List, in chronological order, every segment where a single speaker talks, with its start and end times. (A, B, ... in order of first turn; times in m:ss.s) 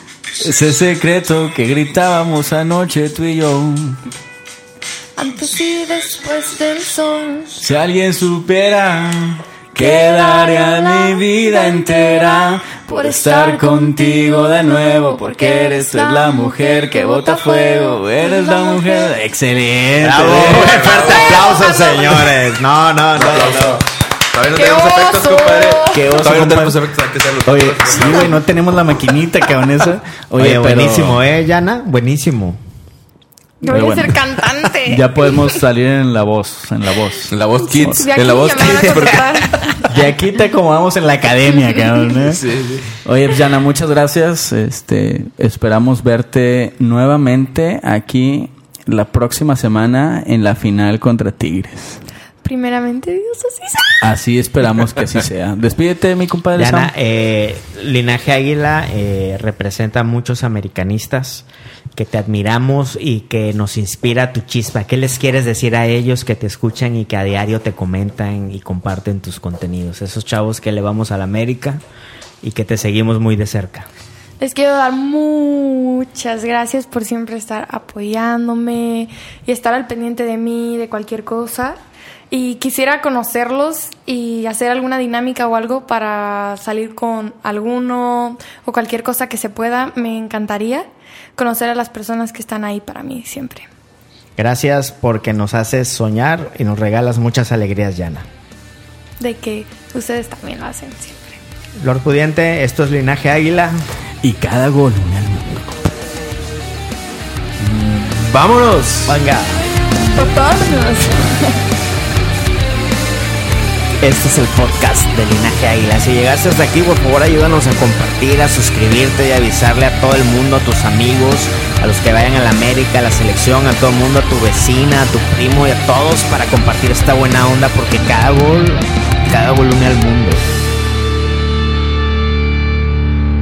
0:00.4-0:04.0 A
0:05.2-0:07.6 B
0:07.6-0:20.9 A
0:09.8-0:19.2 B
0:20.0-0:23.8 C
0:20.3-0:21.5 D
0:20.9-0:22.5 B
0:23.1-0:28.4 D
0:24.5-0:26.2 B
0:25.9-0:26.8 A
0:27.4-0:31.2 A
0:30.4-0:32.6 C
0:33.6-0:35.1 B
0:33.7-0:34.2 A
0:34.8-0:38.1 A
0:37.3-0:39.6 D
0:37.6-0:40.0 B
0:39.9-0:42.4 A
0:42.3-0:42.9 D
0:43.0-0:52.0 A
0:52.4-0:54.0 B
0:54.0-0:56.9 A
0:56.5-1:11.8 C
1:12.4-1:13.9 C
1:14.4-1:21.8 B
1:22.3-1:33.7 B
1:34.4-1:38.2 C
1:39.2-1:41.4 B
1:41.8-1:43.8 C
1:44.2-1:45.6 A
1:47.6-1:49.2 D
1:49.1-1:49.6 C
1:50.0-1:51.6 B
1:54.0-2:10.5 C